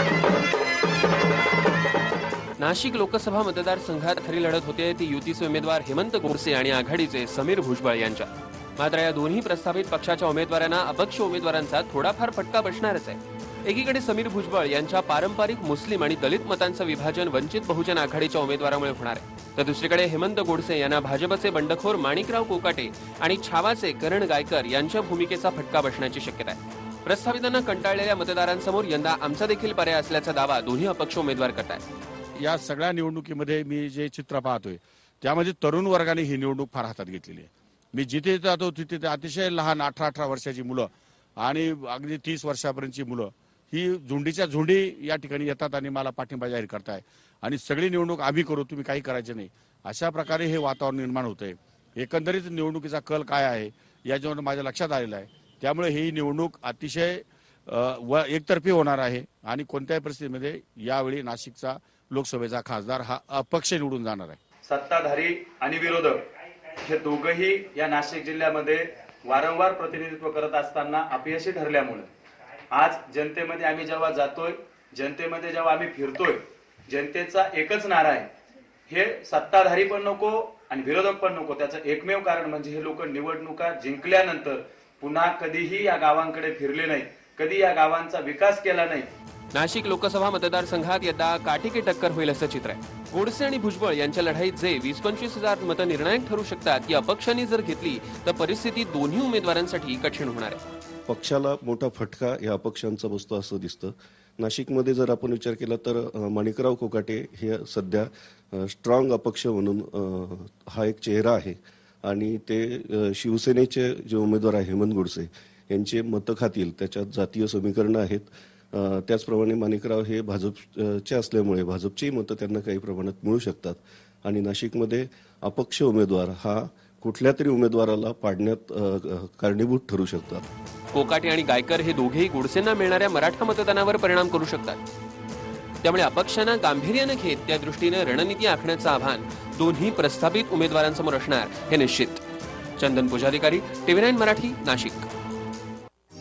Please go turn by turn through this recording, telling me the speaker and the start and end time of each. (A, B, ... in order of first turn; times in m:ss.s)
0:02.6-0:31.8 A
0:32.4-1:04.4 B
1:04.7-1:06.2 C
1:06.8-1:12.1 C
1:12.7-1:18.3 C
1:18.9-1:29.1 C
1:29.5-1:40.6 A
1:41.1-2:10.5 D
2:10.9-2:14.8 A
2:15.8-2:22.2 A
2:22.8-2:25.1 A